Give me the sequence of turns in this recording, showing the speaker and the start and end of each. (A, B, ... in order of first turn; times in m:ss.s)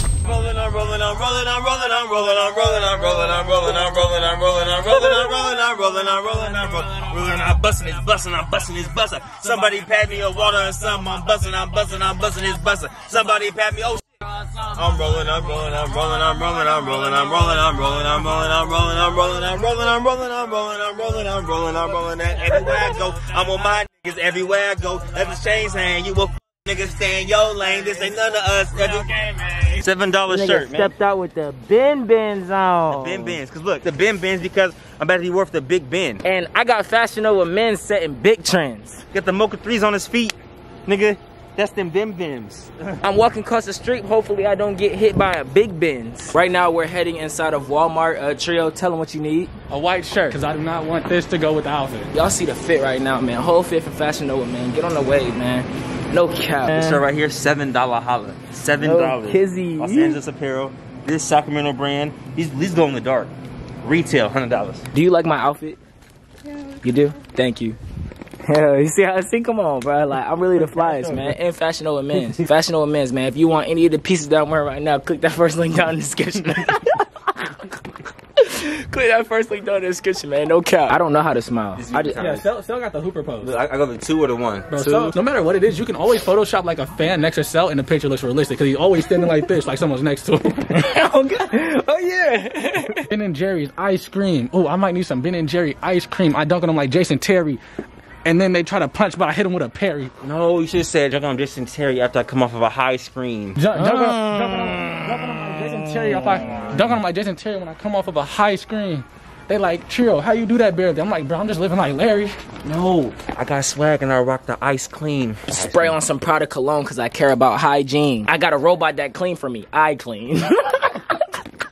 0:00.2-0:30.9 A
0:30.3-0:33.4 B
0:32.9-0:36.2 A
0:36.2-0:39.0 B
0:39.1-0:43.0 A
0:43.0-0:49.5 B
0:49.7-0:52.1 C
0:52.1-0:57.0 B
0:56.7-1:04.8 A
0:58.8-1:00.2 B
1:04.9-1:05.8 B
1:06.8-1:07.8 B
1:08.4-1:17.1 B
1:10.7-1:11.3 A
1:18.4-1:22.3 B
1:21.8-1:22.5 A
1:22.2-1:23.5 C
1:23.4-1:24.7 A
1:24.7-1:30.7 C
1:24.8-1:25.1 B
1:30.7-1:33.0 B
1:33.1-1:37.6 C
1:38.3-1:40.1 C
1:40.2-1:43.6 A
1:43.6-1:52.4 C
1:43.8-1:46.4 B
1:52.6-1:56.0 A
1:55.5-2:01.0 B